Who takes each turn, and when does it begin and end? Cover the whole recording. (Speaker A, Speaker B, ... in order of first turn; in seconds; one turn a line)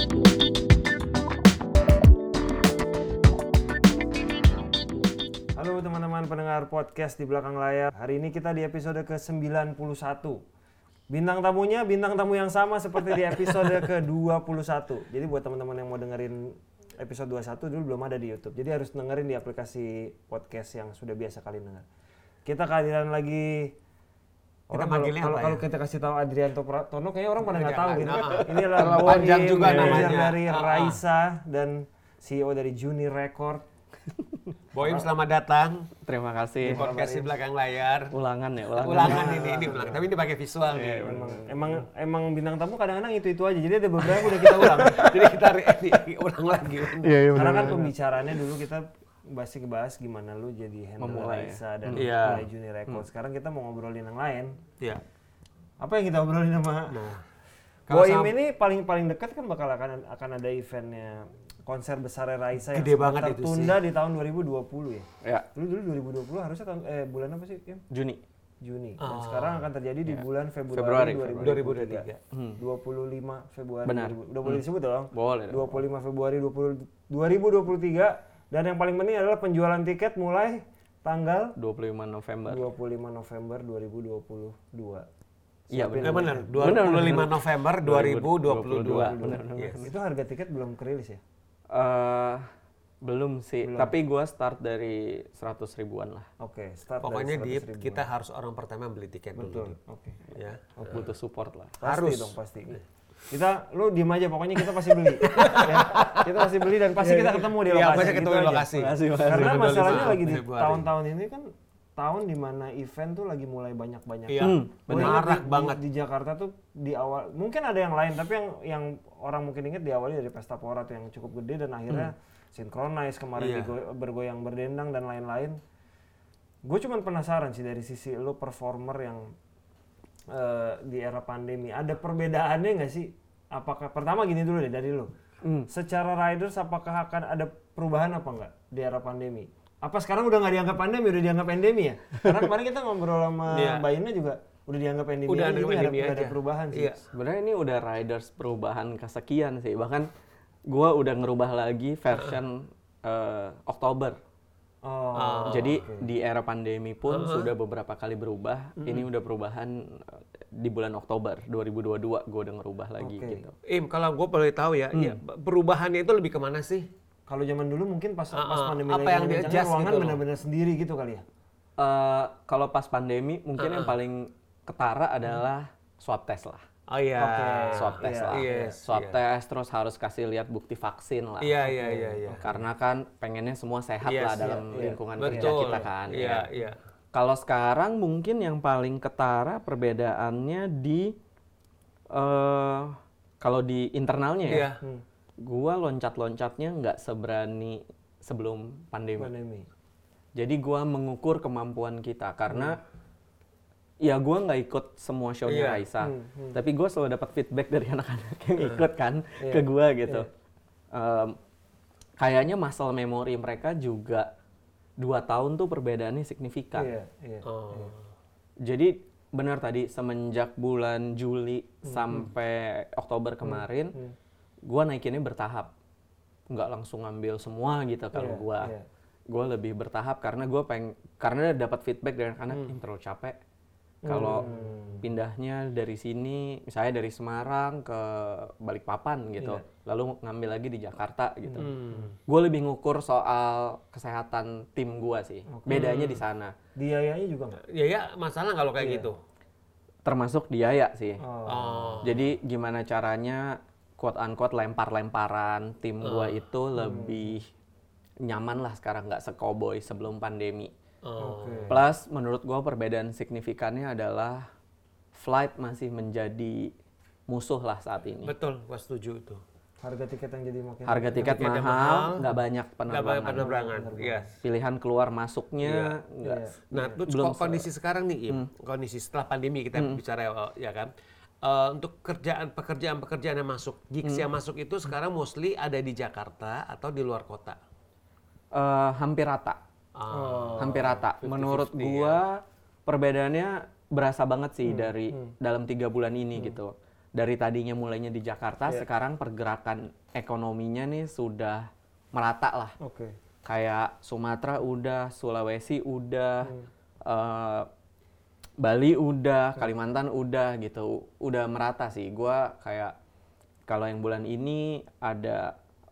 Speaker A: 5.5-10.4
Speaker A: 11.1-21.9
Speaker A: 22.4-23.8
Speaker A: 24.7-33.6
Speaker B: 24.7-25.6
Speaker B: 27.4-31.0
Speaker C: 28.7-30.1
Speaker B: 34.7-35.9
Speaker A: 34.8-35.1
Speaker C: 36.0-36.9
Speaker A: 36.6-37.3
Speaker B: 36.6-38.1
Speaker C: 38.1-39.5
Speaker B: 38.8-41.1
Speaker A: 38.8-40.1
Speaker A: 40.7-45.5
Speaker C: 40.7-41.4
Speaker B: 44.2-47.8
Speaker C: 47.0-47.9
Speaker A: 47.3-54.6
Speaker C: 51.0-52.4
Speaker B: 51.9-52.5
Speaker A: 55.8-57.1
Speaker B: 56.9-57.2
Speaker B: 57.9-58.3
Speaker A: 57.9-67.8
Speaker B: 62.7-63.8
Speaker C: 67.9-68.2
Speaker A: 68.6-72.0
Speaker B: 69.0-69.7
Speaker C: 70.0-71.6
Speaker B: 71.4-72.2
Speaker C: 72.3-72.6
Speaker A: 72.6-81.5
Speaker C: 73.8-75.8
Speaker C: 81.5-82.7
Speaker A: 82.5-85.1
Speaker A: 85.7-86.8
Speaker C: 85.7-89.9
Speaker B: 86.0-89.9
Speaker A: 88.8-91.2
Speaker C: 91.7-92.5
Speaker C: 93.0-96.3
Speaker A: 93.6-93.9
Speaker A: 96.4-98.0
Speaker B: 97.0-99.8
Speaker A: 99.3-100.2
Speaker B: 100.3-100.8
Speaker A: 100.8-101.1
Speaker C: 100.8-101.8
Speaker A: 101.8-125.6
Speaker B: 101.8-102.3
Speaker B: 105.2-106.4
Speaker B: 107.0-110.9
Speaker C: 108.7-110.2
Speaker B: 114.3-115.8
Speaker C: 114.4-115.2
Speaker B: 123.4-123.7
Speaker A: 126.6-129.3
Speaker A: 130.3-135.1
Speaker C: 135.4-135.7
Speaker A: 135.7-147.0
Speaker B: 143.5-143.8
Speaker B: 145.3-147.0
Speaker C: 147.1-150.1
Speaker C: 150.7-154.2
Speaker A: 154.8-156.1
Speaker B: 155.1-155.8
Speaker C: 155.5-163.6
Speaker B: 157.1-157.5
Speaker A: 163.0-163.4
Speaker B: 163.7-166.9
Speaker A: 167.3-171.2
Speaker B: 168.3-170.2
Speaker C: 171.8-176.6
Speaker B: 173.6-173.9
Speaker B: 176.9-179.2
Speaker A: 177.2-178.8
Speaker C: 177.8-181.6
Speaker B: 181.4-182.4
Speaker A: 181.7-182.6
Speaker C: 182.4-186.5
Speaker B: 184.0-184.6
Speaker A: 184.4-185.8
Speaker B: 185.2-186.8
Speaker C: 187.1-191.1
Speaker C: 192.1-194.7
Speaker B: 194.5-194.8
Speaker A: 194.5-195.0
Speaker C: 195.4-199.3
Speaker A: 199.2-199.7
Speaker C: 200.3-202.8
Speaker A: 202.5-202.8
Speaker C: 204.0-210.3
Speaker B: 205.5-205.8
Speaker A: 206.0-206.6
Speaker A: 209.4-210.3
Speaker C: 210.9-211.4
Speaker C: 212.2-214.3
Speaker C: 215.0-216.9
Speaker A: 216.8-217.9
Speaker B: 217.4-218.0
Speaker C: 218.6-223.9
Speaker A: 221.8-222.3
Speaker A: 223.4-224.1
Speaker C: 224.7-225.7
Speaker C: 226.5-228.7
Speaker A: 228.1-228.8
Speaker C: 229.3-233.4
Speaker A: 234.0-235.1
Speaker C: 234.1-241.7
Speaker A: 241.6-242.1
Speaker B: 241.6-242.1
Speaker C: 242.3-246.5
Speaker A: 245.5-246.1
Speaker B: 245.7-246.2
Speaker A: 246.8-247.6
Speaker B: 247.6-249.2
Speaker A: 248.8-249.1
Speaker C: 250.0-251.2
Speaker A: 251.2-252.2
Speaker B: 251.5-252.2
Speaker C: 252.0-257.5
Speaker B: 256.0-256.4
Speaker A: 256.8-257.3
Speaker C: 258.2-260.7
Speaker B: 261.0-261.8
Speaker A: 261.2-261.8
Speaker C: 261.7-264.5
Speaker C: 265.1-266.7
Speaker C: 267.3-268.3
Speaker B: 268.2-269.4
Speaker A: 269.8-271.4
Speaker C: 270.9-273.6
Speaker B: 271.2-272.2
Speaker B: 272.9-274.3
Speaker A: 273.4-274.3
Speaker C: 274.4-277.7
Speaker B: 275.6-276.0
Speaker A: 276.2-277.0
Speaker B: 276.7-287.6
Speaker C: 288.5-289.6
Speaker B: 289.9-292.2
Speaker A: 290.1-291.0
Speaker C: 290.6-302.8
Speaker A: 294.6-295.3
Speaker A: 302.8-303.1
Speaker C: 303.4-307.7
Speaker C: 308.6-312.9
Speaker C: 313.7-315.5